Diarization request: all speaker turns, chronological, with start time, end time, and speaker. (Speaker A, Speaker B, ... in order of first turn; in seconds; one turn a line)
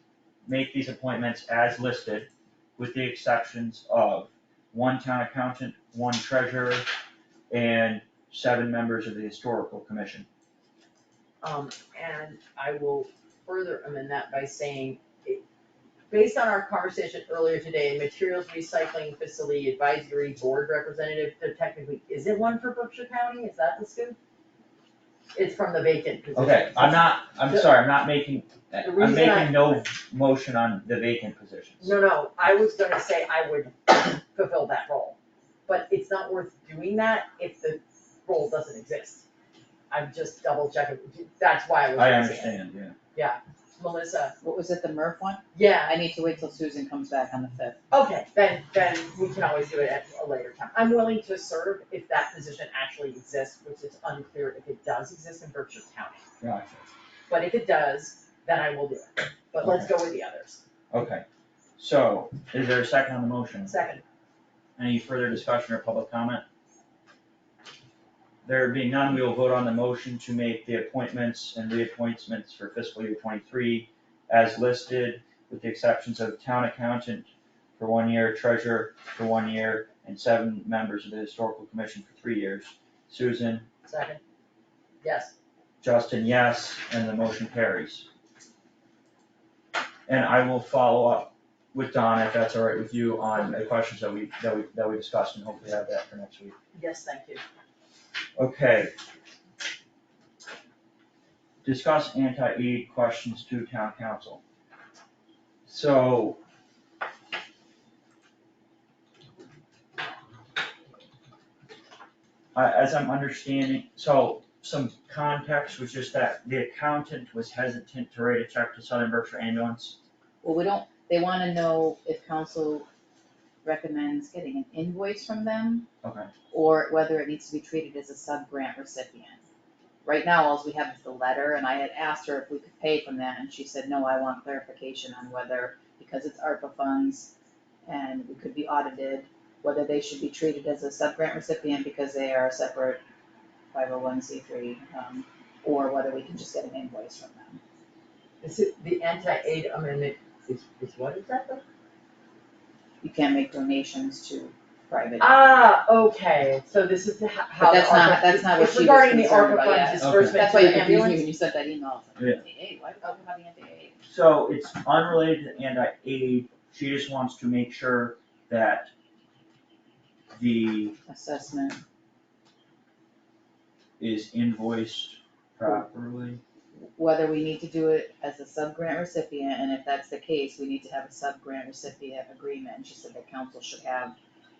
Speaker A: 0.5-6.9
Speaker A: 7.5-10.3
Speaker B: 11.4-15.4
Speaker B: 16.1-24.2
Speaker B: 25.3-27.7
Speaker A: 26.3-31.9
Speaker B: 28.8-29.8
Speaker B: 31.8-39.2
Speaker B: 39.9-42.5
Speaker A: 42.0-43.0
Speaker B: 43.1-44.3
Speaker C: 44.4-47.8
Speaker B: 45.5-46.0
Speaker B: 47.9-56.2
Speaker A: 56.4-56.9
Speaker B: 57.3-60.6
Speaker A: 59.6-59.9
Speaker A: 60.9-61.2
Speaker A: 61.8-63.7
Speaker B: 63.6-64.0
Speaker A: 64.8-66.4
Speaker A: 68.4-83.7
Speaker B: 83.8-84.2
Speaker B: 85.0-85.3
Speaker A: 85.8-88.1
Speaker A: 90.1-96.5
Speaker B: 96.7-97.4
Speaker A: 98.3-98.9
Speaker A: 101.6-104.4
Speaker A: 105.7-106.4
Speaker A: 112.5-120.0
Speaker C: 120.4-122.9
Speaker C: 123.6-125.9
Speaker A: 126.0-126.3
Speaker C: 126.5-129.4
Speaker C: 130.0-137.3
Speaker C: 137.8-143.0
Speaker C: 143.7-147.6
Speaker B: 148.4-151.6
Speaker C: 153.0-155.4
Speaker B: 155.2-161.2
Speaker C: 157.6-164.0
Speaker A: 160.0-160.4
Speaker A: 162.2-162.4
Speaker A: 164.1-168.9
Speaker A: 170.3-170.9
Speaker C: 171.1-171.8
Speaker A: 174.0-176.4
Speaker C: 176.9-184.1